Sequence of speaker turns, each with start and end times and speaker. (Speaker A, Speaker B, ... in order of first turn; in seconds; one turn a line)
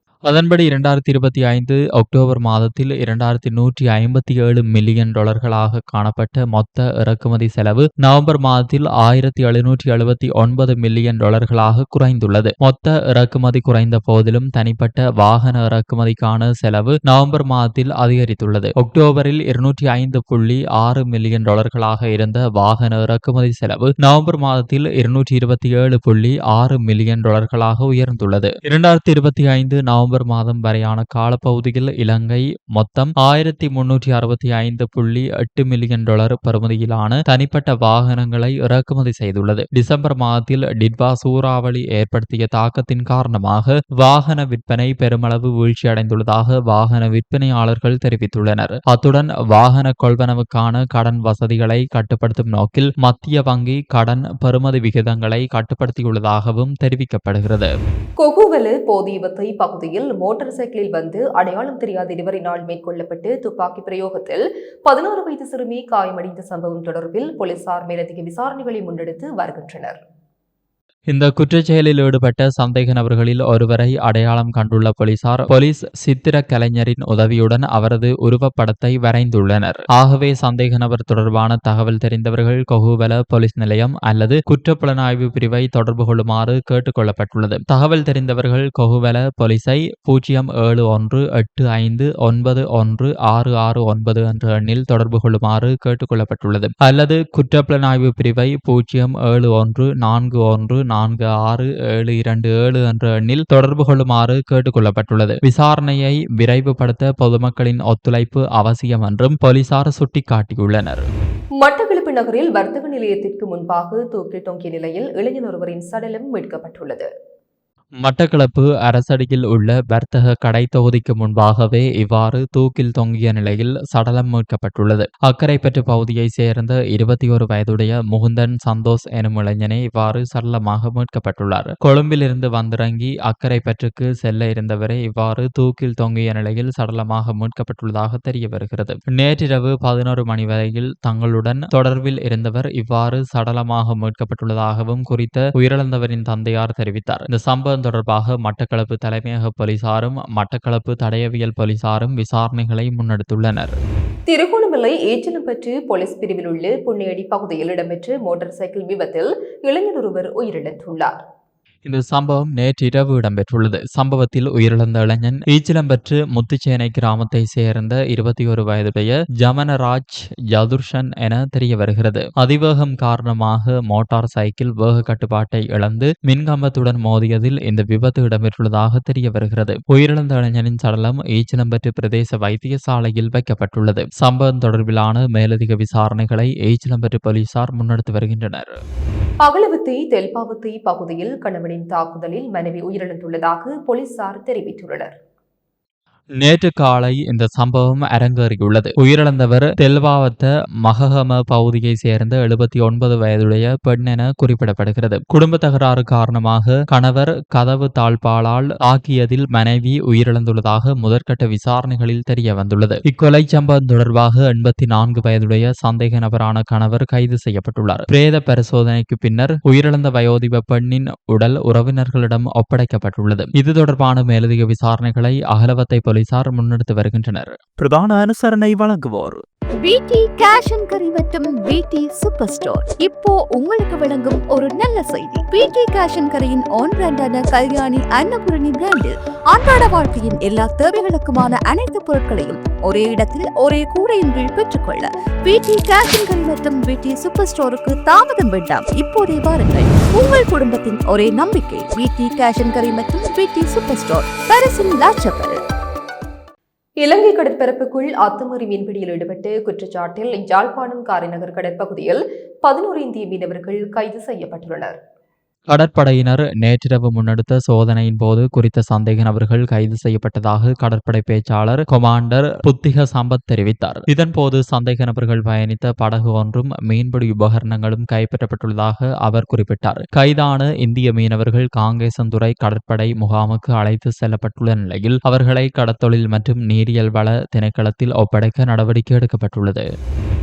Speaker A: 0.3-57.7
Speaker B: 58.2-70.0
Speaker A: 71.1-111.1
Speaker B: 111.6-117.1
Speaker A: 118.0-153.8
Speaker B: 154.3-161.2
Speaker A: 161.8-188.8
Speaker B: 189.4-195.1
Speaker A: 196.4-229.4
Speaker C: 229.8-255.6
Speaker B: 257.0-265.0
Speaker A: 265.7-289.8